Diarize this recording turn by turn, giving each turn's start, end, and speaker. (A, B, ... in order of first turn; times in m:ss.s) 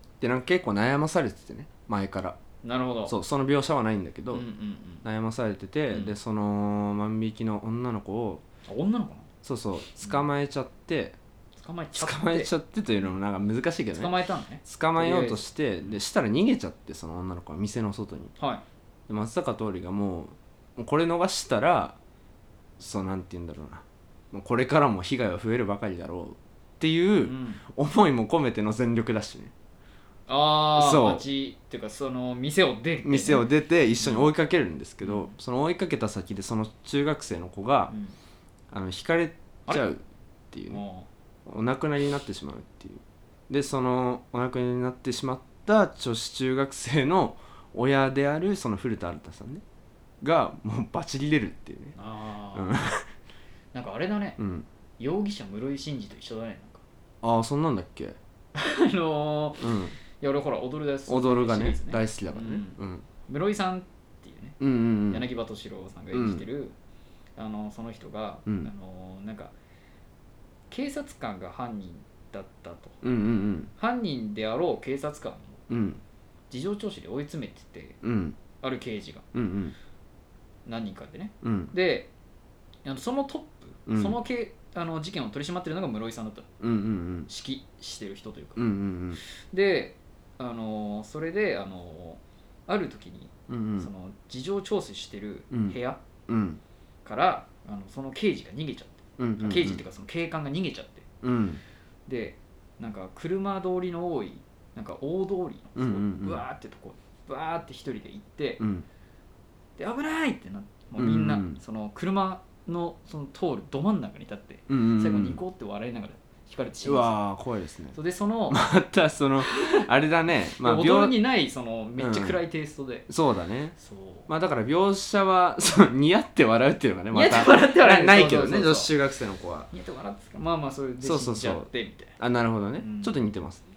0:00.2-0:02.4 A
0:02.6-0:03.1 B
0:03.0-0:04.5 A
0:04.3-0:05.0 B
0:05.0-0:08.4 A
0:08.7-0:09.3 B
0:09.4-0:11.2 A
0:11.6-0:12.5 B
0:11.9-0:14.1 A
0:13.9-0:15.4 B
0:14.6-0:18.3 A
0:18.4-0:18.6 B
0:19.1-0:22.0 A
0:22.8-0:29.5 A
0:27.2-0:27.6 B
0:30.3-0:34.3 B
0:30.7-0:31.2 A
0:33.0-0:37.9 A
0:35.0-0:35.3 B
0:37.9-0:38.2 B
0:38.7-0:40.8 A
0:40.7-0:41.1 B
0:41.4-0:49.6 A
0:50.2-0:51.9 A
0:51.9-0:52.8 B
0:52.5-0:53.0 A
0:53.7-0:54.4 B
0:54.4-0:54.6 A
0:55.0-0:56.8 B
0:57.2-0:58.2 A
0:58.5-1:06.7 B
0:59.6-0:59.9 A
1:01.1-1:03.0 A
1:04.6-1:05.2 A
1:06.1-1:06.4 A
1:07.4-1:09.5 B
1:08.4-1:08.7 A
1:10.7-1:13.0 B
1:13.0-1:13.7 A
1:13.8-1:15.7 B
1:15.7-1:16.0 A
1:16.5-1:18.0 B
1:18.0-1:18.4 A
1:18.6-1:19.2 B
1:19.3-1:19.7 A
1:20.6-1:22.1 B
1:21.4-1:21.7 A
1:22.8-1:26.5 B
1:23.9-1:24.2 A
1:26.6-1:27.3 A
1:27.3-1:28.7 B
1:28.6-1:29.2 A
1:29.5-1:36.0 B
1:33.5-1:33.9 A
1:35.5-1:35.8 A
1:36.3-1:36.6 A
1:37.0-1:41.0 B
1:39.2-1:39.8 A
1:41.2-1:41.6 A
1:42.1-1:48.6 B
1:45.8-1:46.4 A
1:48.6-1:48.8 A
1:49.8-1:57.1 B
1:51.0-1:51.6 A
1:54.7-1:55.4 A
1:56.8-1:58.0 A
1:57.9-1:58.6 B
1:58.5-2:01.2 A
1:59.4-1:59.8 B
2:00.6-2:03.1 B
2:02.0-2:02.4 A
2:03.1-2:03.8 A
2:03.8-2:04.3 B
2:04.3-2:09.7 A
2:07.1-2:08.9 B
2:09.7-2:12.2 B
2:11.0-2:13.6 A
2:12.8-2:13.2 B